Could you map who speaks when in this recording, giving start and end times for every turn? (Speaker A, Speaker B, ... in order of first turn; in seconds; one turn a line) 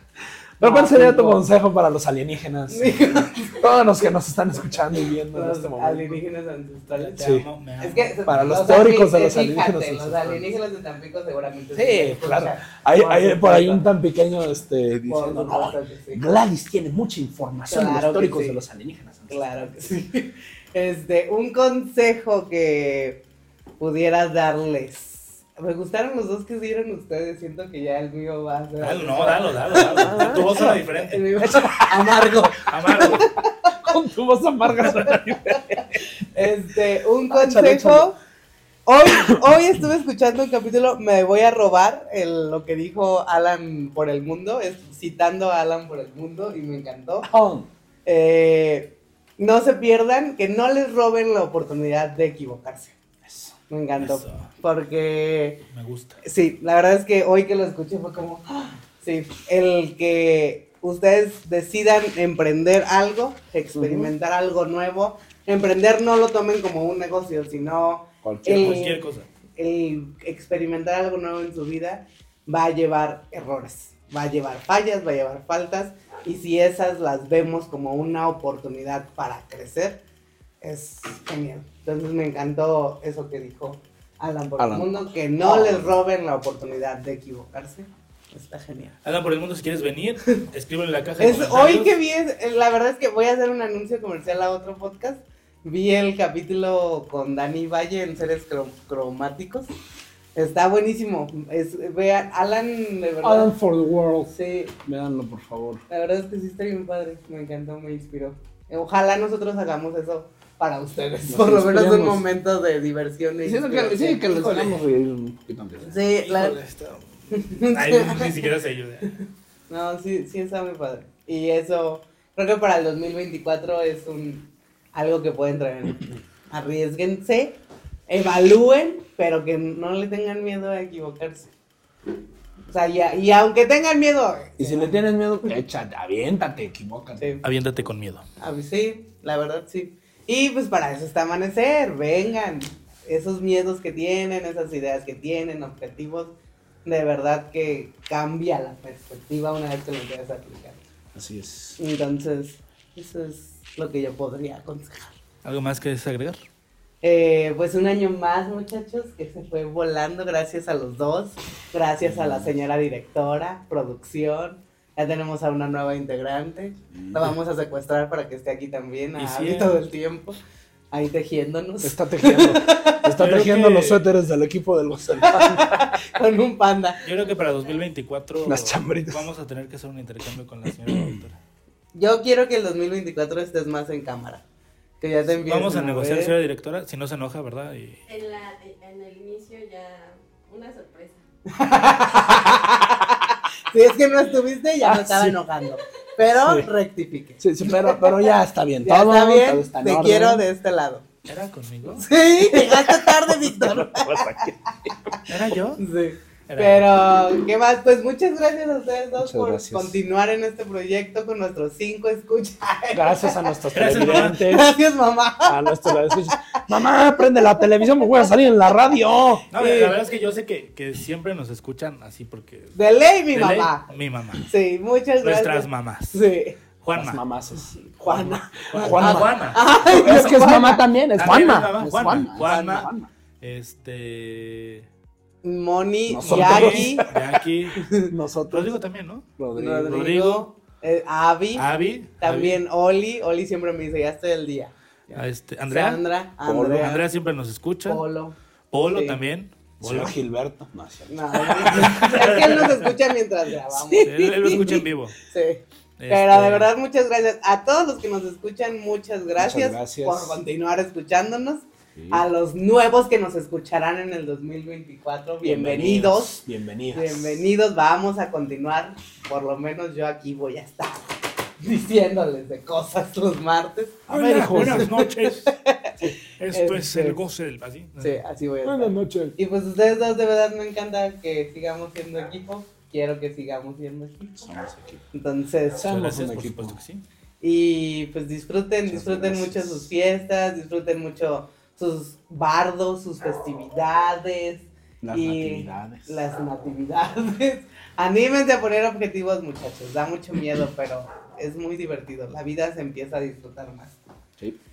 Speaker A: 0.6-6.2
Speaker B: 0.6-1.4
Speaker B: 2.7-3.6
Speaker B: 5.3-7.2
Speaker C: 7.0-8.2
Speaker A: 7.2-7.5
Speaker B: 7.8-13.8
Speaker A: 8.3-10.5
Speaker A: 11.7-19.9
Speaker B: 15.1-16.2
Speaker B: 17.7-18.6
Speaker B: 19.3-23.2
Speaker B: 23.8-33.9
Speaker C: 28.8-31.3
Speaker A: 29.9-30.8
Speaker A: 31.4-32.4
Speaker C: 32.6-33.3
Speaker A: 33.8-36.0
Speaker B: 34.9-35.2
Speaker B: 35.7-38.2
Speaker A: 37.3-38.1
Speaker B: 38.9-47.3
Speaker A: 47.2-47.7
Speaker B: 48.0-52.9
Speaker A: 53.2-53.5
Speaker B: 53.7-55.6
Speaker C: 54.0-54.5
Speaker C: 55.7-56.2
Speaker B: 56.2-69.0
Speaker A: 63.7-64.1
Speaker A: 68.2-68.8
Speaker C: 68.5-69.3
Speaker B: 69.6-80.0
Speaker B: 80.6-89.0
Speaker A: 84.6-85.1
Speaker C: 89.0-91.9
Speaker B: 91.2-99.7
Speaker B: 100.3-103.5
Speaker A: 103.2-105.8
Speaker B: 104.3-104.7
Speaker B: 105.9-114.8
Speaker A: 111.3-112.2
Speaker A: 113.4-116.0
Speaker B: 115.8-116.6
Speaker C: 116.2-119.1
Speaker B: 117.3-118.4
Speaker B: 119.7-131.5
Speaker B: 132.7-135.5
Speaker A: 134.6-137.3
Speaker C: 137.4-138.2
Speaker B: 138.4-146.3
Speaker B: 146.8-150.8
Speaker A: 151.1-151.8
Speaker B: 151.8-155.1
Speaker C: 155.4-156.4
Speaker B: 157.0-170.4
Speaker A: 162.0-162.5
Speaker A: 166.9-167.3
Speaker C: 169.2-169.8
Speaker B: 170.9-173.1
Speaker A: 171.8-176.0
Speaker C: 173.2-174.0
Speaker B: 175.2-177.0
Speaker C: 177.0-181.4
Speaker A: 178.4-179.3
Speaker A: 180.9-181.1
Speaker B: 181.9-184.4
Speaker B: 185.0-186.3
Speaker C: 185.3-188.0
Speaker D: 188.1-191.2
Speaker B: 191.5-201.1
Speaker A: 194.8-195.4
Speaker A: 196.3-196.7
Speaker A: 197.4-200.4
Speaker C: 201.2-202.1
Speaker B: 202.0-204.4
Speaker A: 202.4-205.2
Speaker C: 205.3-205.8
Speaker B: 205.8-216.6
Speaker C: 206.5-206.9
Speaker A: 209.2-210.0
Speaker A: 212.9-214.7
Speaker C: 213.7-214.4
Speaker A: 215.4-219.5
Speaker B: 219.5-219.9
Speaker C: 219.5-222.8
Speaker B: 222.7-223.9
Speaker C: 223.3-224.4
Speaker B: 224.4-226.6
Speaker C: 225.2-226.2
Speaker C: 226.8-227.2
Speaker A: 226.9-233.1
Speaker B: 227.7-230.9
Speaker C: 228.6-229.6
Speaker C: 231.2-234.9
Speaker B: 232.4-232.9
Speaker B: 235.4-237.1
Speaker A: 236.1-237.4
Speaker C: 236.2-237.8
Speaker B: 237.8-238.1
Speaker A: 238.0-238.7
Speaker C: 238.5-239.2
Speaker A: 239.4-240.0
Speaker B: 239.5-241.7
Speaker C: 239.8-240.4
Speaker C: 241.6-242.6
Speaker B: 242.2-247.0
Speaker C: 245.1-246.0
Speaker A: 246.4-247.0
Speaker C: 246.8-248.0
Speaker B: 247.8-248.3
Speaker C: 248.7-250.1
Speaker B: 248.9-249.2
Speaker A: 249.8-252.4
Speaker B: 251.1-274.0
Speaker C: 251.8-252.9
Speaker A: 253.7-254.8
Speaker C: 254.0-255.2
Speaker C: 256.0-256.7
Speaker A: 259.4-260.4
Speaker A: 262.0-262.2
Speaker A: 265.4-267.5
Speaker A: 274.1-274.9
Speaker C: 274.1-275.5
Speaker B: 274.6-275.9
Speaker C: 276.2-278.2
Speaker B: 276.5-277.1
Speaker B: 278.0-284.4
Speaker A: 278.6-279.4
Speaker A: 284.4-285.0
Speaker B: 285.1-285.9
Speaker A: 285.8-286.8
Speaker C: 285.8-287.0
Speaker B: 287.4-304.0
Speaker A: 288.9-289.9
Speaker A: 295.0-296.2